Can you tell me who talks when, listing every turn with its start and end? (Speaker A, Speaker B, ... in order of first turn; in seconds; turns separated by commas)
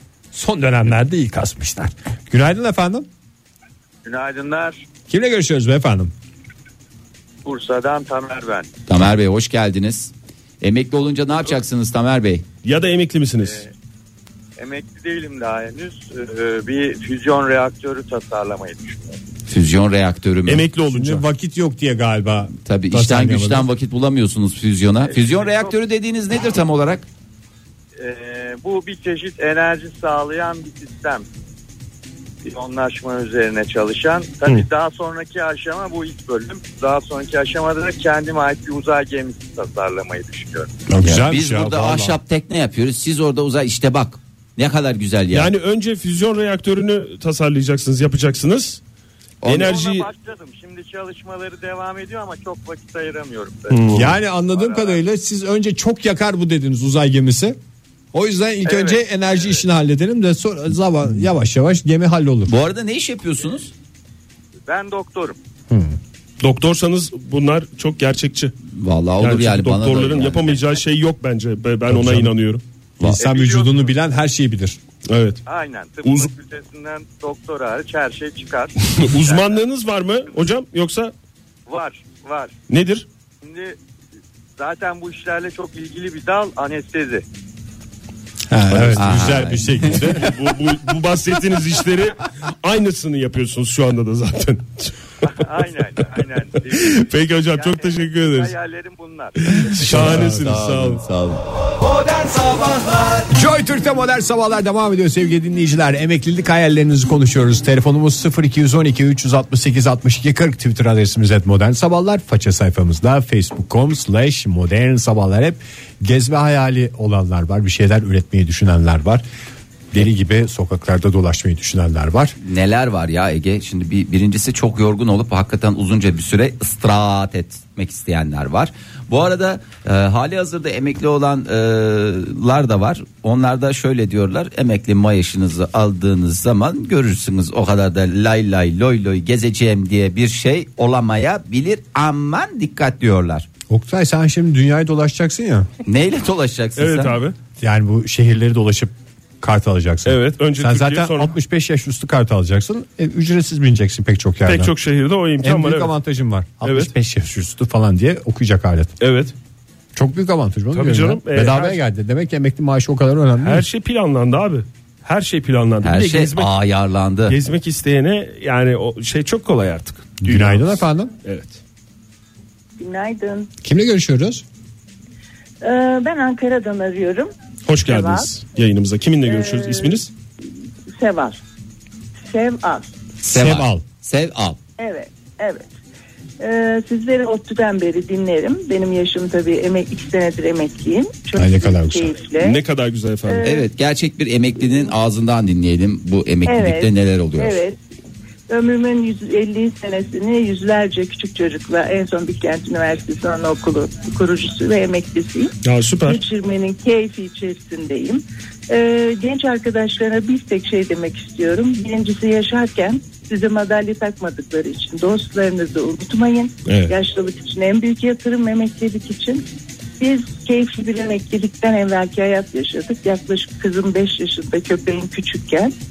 Speaker A: 0.3-3.1, Speaker B: 4.0-4.8, Speaker A: 5.1-6.1, Speaker B: 7.5-8.7, Speaker C: 8.9-12.4, Speaker D: 12.6-13.6, Speaker B: 14.6-19.2, Speaker C: 19.5-20.7, Speaker D: 20.5-21.2, Speaker A: 20.9-23.7, Speaker C: 22.6-27.1, Speaker B: 25.0-25.8, Speaker B: 28.0-31.3, Speaker B: 32.4-40.7, Speaker A: 40.9-42.2, Speaker C: 41.0-45.5, Speaker D: 45.3-48.8, Speaker C: 49.4-49.7, Speaker D: 49.4-50.1, Speaker B: 49.6-55.0, Speaker D: 53.7-54.2, Speaker A: 53.9-57.6, Speaker A: 58.1-62.5, Speaker B: 58.6-59.6, Speaker C: 62.5-63.7, Speaker B: 64.7-65.4, Speaker A: 65.7-66.0, Speaker D: 66.4-68.5, Speaker C: 68.8-70.6, Speaker D: 69.2-72.6, Speaker A: 71.9-72.3, Speaker A: 73.0-74.8, Speaker B: 73.2-73.9, Speaker D: 75.1-75.4, Speaker B: 75.5-79.6, Speaker D: 76.0-76.3, Speaker D: 78.8-81.1, Speaker B: 81.7-82.6, Speaker D: 82.7-83.1, Speaker B: 83.4-83.8, Speaker B: 84.6-87.2, Speaker A: 88.5-90.3, Speaker C: 88.7-90.3, Speaker D: 90.1-94.9, Speaker B: 95.2-99.5, Speaker D: 96.7-98.5, Speaker D: 99.4-101.0, Speaker C: 99.8-103.3, Speaker A: 99.8-100.6, Speaker A: 103.3-119.2, Speaker A: 119.9-122.3, Speaker C: 122.4-143.5, Speaker A: 143.7-145.7, Speaker C: 145.9-147.2, Speaker D: 146.8-147.3, Speaker A: 147.6-154.7, Speaker D: 150.1-151.3, Speaker D: 154.4-155.9, Speaker A: 155.4-158.9, Speaker D: 156.6-156.9, Speaker D: 159.0-159.3, Speaker A: 159.9-163.7, Speaker D: 160.7-161.8, Speaker D: 163.4-166.5, Speaker C: 165.8-167.4, Speaker D: 167.3-171.6, Speaker A: 170.2-171.1, Speaker E: 172.8-173.5, Speaker A: 173.6-174.4, Speaker E: 175.6-178.3, Speaker D: 177.7-180.1, Speaker E: 179.2-180.0, Speaker E: 181.0-181.4, Speaker E: 182.2-182.9, Speaker A: 183.2-183.8, Speaker C: 183.2-184.6, Speaker E: 184.8-185.7, Speaker E: 186.4-192.6, Speaker A: 191.4-192.1, Speaker D: 192.4-193.5, Speaker E: 193.3-193.7, Speaker C: 193.4-197.6, Speaker E: 196.4-197.8, Speaker E: 198.5-219.4, Speaker D: 205.6-206.2, Speaker D: 216.7-216.9, Speaker E: 220.0-225.7